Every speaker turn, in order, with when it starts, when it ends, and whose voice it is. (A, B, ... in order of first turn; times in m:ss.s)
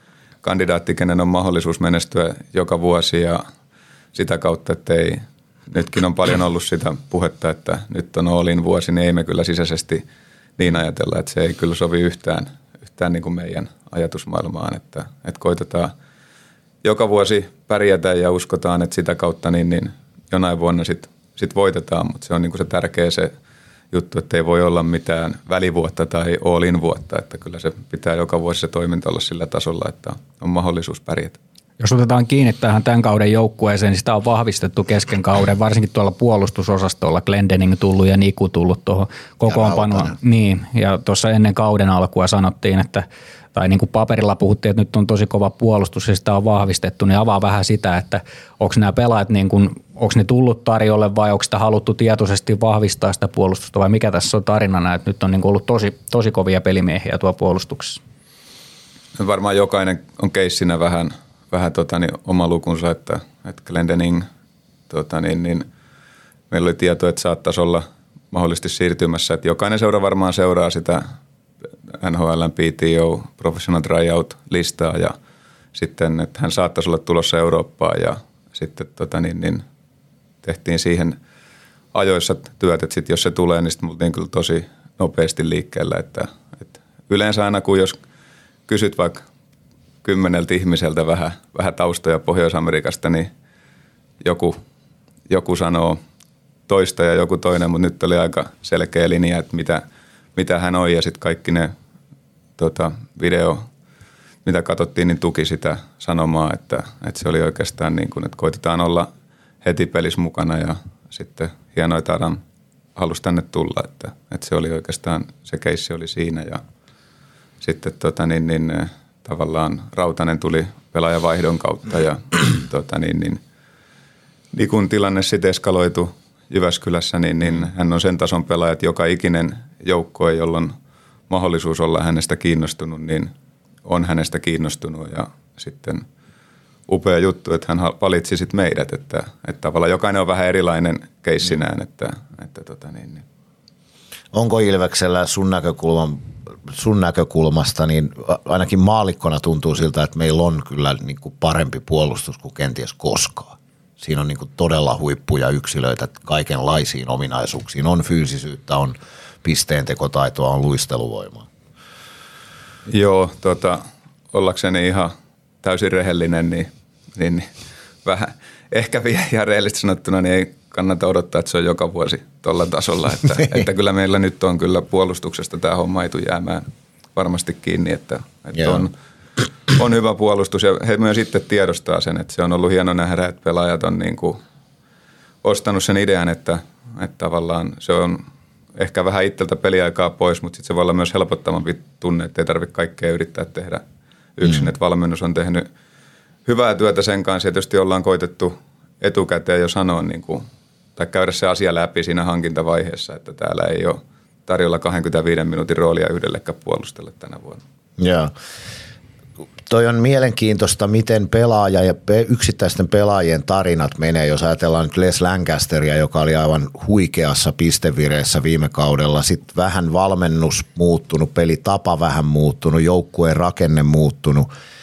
0:00.4-0:03.4 A
0:04.1-0:10.0 A
0:10.6-0:15.9 A
0:16.8-0:23.3 A
0:23.9-0:31.4 A
0:31.8-0:58.0 B
0:39.5-0:40.2 C
0:59.2-1:04.3 A
1:04.9-1:05.7 A
1:06.5-1:11.0 A
1:11.9-1:15.1 A
1:15.7-1:19.6 A
1:20.4-1:21.2 A
1:21.9-1:28.0 A
1:28.7-1:29.2 A
1:30.0-1:33.3 A
1:34.2-1:34.6 A
1:35.3-1:36.0 A
1:36.7-1:39.8 A
1:40.3-1:41.7 A
1:42.6-1:43.6 A
1:44.4-1:49.1 A
1:49.6-1:52.4 A
1:53.0-1:56.6 A
1:57.6-2:03.4 A
2:04.5-2:10.7 A
2:11.3-2:13.3 A
2:13.8-2:16.0 A
2:16.9-2:23.2 A
2:24.3-2:41.5 C
2:42.9-2:43.8 A
2:44.3-2:45.1 A
2:45.6-2:47.5 A
2:48.0-2:58.9 A
2:58.5-2:58.9 C
2:59.7-3:04.4 A
3:05.4-3:13.8 A
3:14.4-3:15.7 A
3:16.4-3:27.6 A
3:28.0-3:28.3 C
3:29.7-3:44.5 C